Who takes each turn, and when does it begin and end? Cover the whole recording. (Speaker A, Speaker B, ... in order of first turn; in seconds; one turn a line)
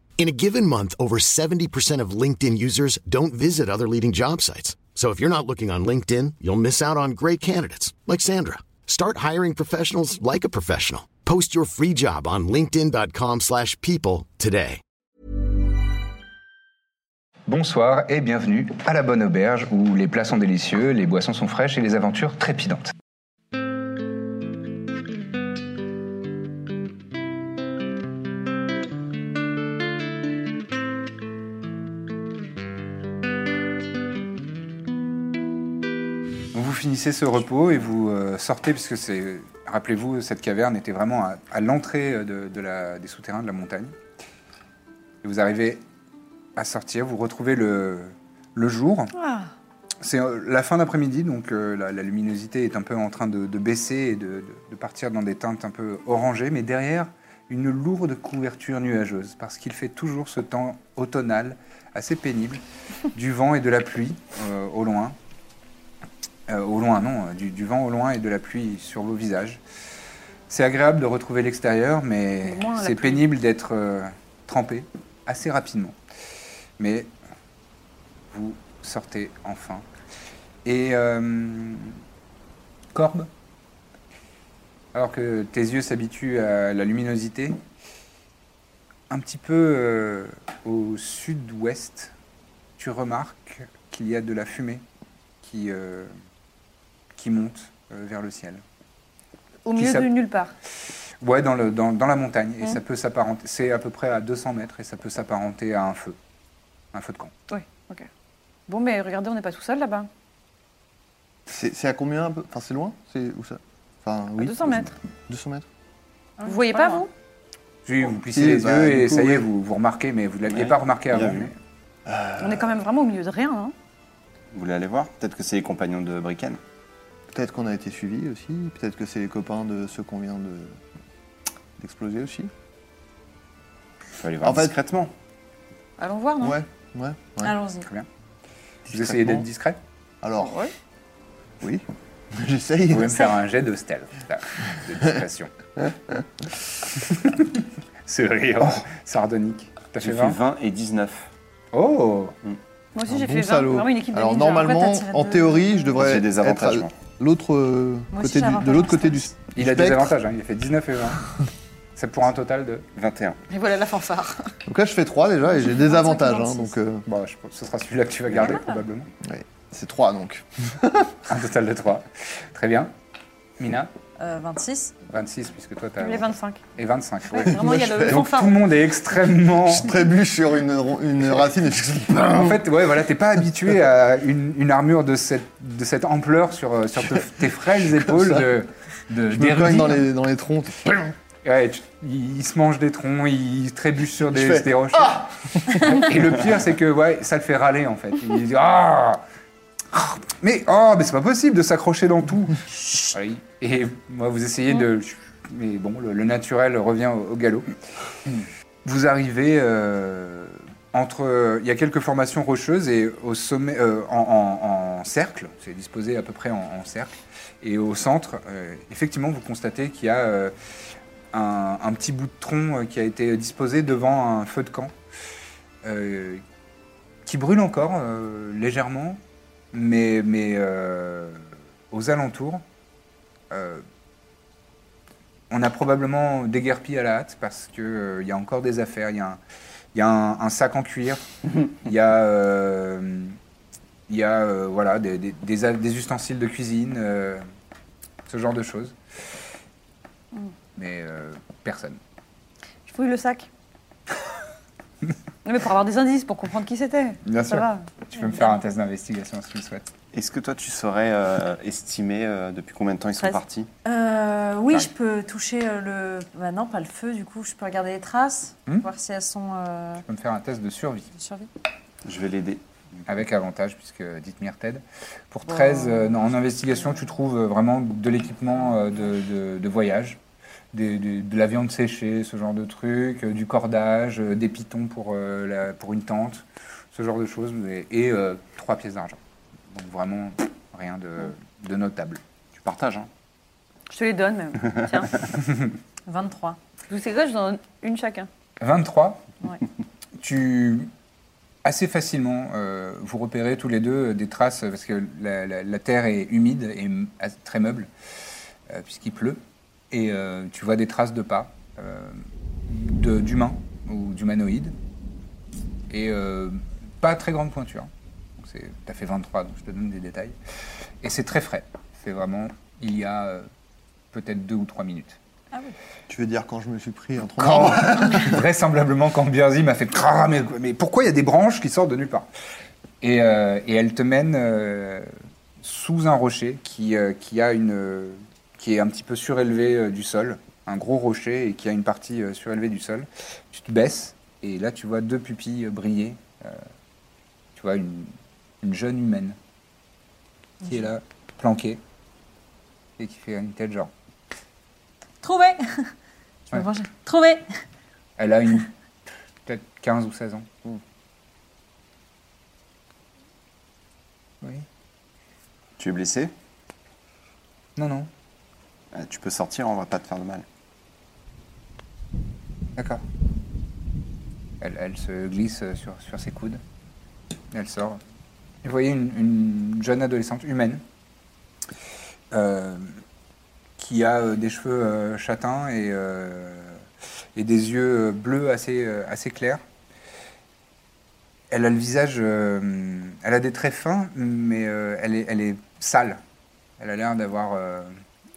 Speaker A: 0.2-14.8
Speaker B: 17.5-22.9
Speaker B: 36.5-43.9
Speaker B: 45.2-45.8
Speaker B: 46.5-49.1
Speaker C: 49.2-49.5
Speaker B: 50.0-62.6
Speaker B: 63.1-65.2
Speaker B: 66.5-69.6
Speaker B: 70.5-75.9
Speaker C: 72.4-73.2
Speaker B: 76.8-77.1
Speaker B: 78.3-79.8
Speaker B: 80.6-82.0
Speaker B: 82.9-83.3
Speaker B: 84.9-87.6
Speaker B: 89.1-92.1
Speaker B: 92.8-94.8
Speaker B: 95.4-96.1
Speaker B: 97.2-98.6
Speaker C: 99.7-100.5
Speaker B: 99.7-100.1
Speaker B: 101.2-106.2
Speaker B: 106.9-107.3
Speaker C: 107.5-108.1
Speaker C: 108.7-110.1
Speaker D: 111.5-115.7
Speaker C: 114.4-114.9
Speaker E: 116.4-117.0
Speaker C: 116.4-117.1
Speaker B: 117.8-121.5
Speaker D: 118.2-119.5
Speaker F: 120.5-121.5
Speaker D: 122.0-122.8
Speaker C: 122.4-123.7
Speaker F: 124.5-126.6
Speaker D: 127.3-130.8
Speaker D: 131.8-132.5
Speaker F: 134.2-135.1
Speaker D: 134.4-134.7
Speaker C: 136.0-136.6
Speaker D: 136.4-137.6
Speaker E: 137.4-137.9
Speaker B: 137.8-138.1
Speaker D: 138.8-139.4
Speaker B: 138.9-139.8
Speaker D: 140.2-140.6
Speaker C: 140.4-140.7
Speaker D: 141.6-143.3
Speaker B: 142.9-145.5
Speaker B: 147.1-147.5
Speaker B: 148.0-150.4
Speaker F: 150.0-151.3
Speaker B: 151.7-152.3
Speaker C: 152.9-154.8
Speaker D: 153.1-160.1
Speaker E: 154.6-155.7
Speaker F: 155.9-156.9
Speaker E: 158.1-159.3
Speaker B: 159.5-161.2
Speaker B: 161.9-162.8
Speaker F: 162.9-163.4
Speaker E: 163.5-164.5
Speaker D: 164.7-167.1
Speaker E: 165.5-166.7
Speaker B: 167.1-169.1
Speaker E: 168.4-168.8
Speaker D: 169.2-171.2
Speaker B: 171.3-172.9
Speaker B: 173.6-173.9
Speaker E: 174.2-175.0
Speaker B: 175.1-179.9
Speaker C: 176.0-176.6
Speaker C: 177.3-178.6
Speaker D: 177.4-178.3
Speaker D: 179.7-182.7
Speaker B: 182.3-190.1
Speaker D: 187.9-188.4
Speaker D: 189.3-191.0
Speaker B: 191.4-199.2
Speaker D: 194.3-196.1
Speaker B: 199.9-207.7
Speaker B: 208.8-220.5
Speaker B: 221.3-224.9
Speaker B: 225.8-226.4
Speaker B: 227.2-229.2
Speaker B: 229.7-232.6
Speaker B: 233.5-233.8
Speaker B: 235.5-239.4
Speaker B: 239.9-243.4
Speaker B: 244.1-247.4
Speaker B: 248.2-248.9
Speaker B: 250.8-252.0
Speaker C: 252.8-253.5
Speaker C: 255.4-258.3
Speaker B: 257.2-259.9
Speaker F: 260.1-263.7
Speaker E: 263.8-270.0
Speaker B: 270.0-271.1
Speaker E: 271.1-271.5
Speaker F: 272.0-273.1
Speaker B: 273.1-280.2
Speaker E: 275.4-276.2
Speaker B: 280.7-289.2
Speaker B: 289.7-292.2
Speaker F: 292.5-293.1
Speaker C: 293.9-295.3
Speaker E: 296.1-296.6
Speaker C: 296.8-298.3
Speaker B: 298.6-299.2
Speaker B: 300.2-300.9
Speaker B: 301.6-307.9
Speaker B: 308.7-314.7
Speaker B: 315.9-320.4
Speaker B: 321.0-323.5
Speaker B: 324.1-325.2
Speaker D: 326.1-328.4
Speaker B: 327.4-332.3
Speaker B: 333.0-346.6
Speaker B: 347.5-349.4
Speaker E: 350.6-350.9
Speaker B: 350.6-351.8
Speaker B: 353.0-353.9
Speaker E: 355.2-355.9
Speaker E: 356.5-357.4
Speaker B: 358.2-358.7
Speaker B: 359.4-360.4
Speaker F: 365.8-366.3
Speaker B: 367.8-368.1
Speaker F: 368.9-370.4
Speaker B: 372.8-373.0
Speaker B: 374.6-376.6
Speaker B: 377.5-378.0
Speaker B: 378.6-380.8
Speaker B: 382.3-383.0
Speaker B: 383.8-389.6
Speaker B: 391.5-396.2
Speaker B: 396.8-397.9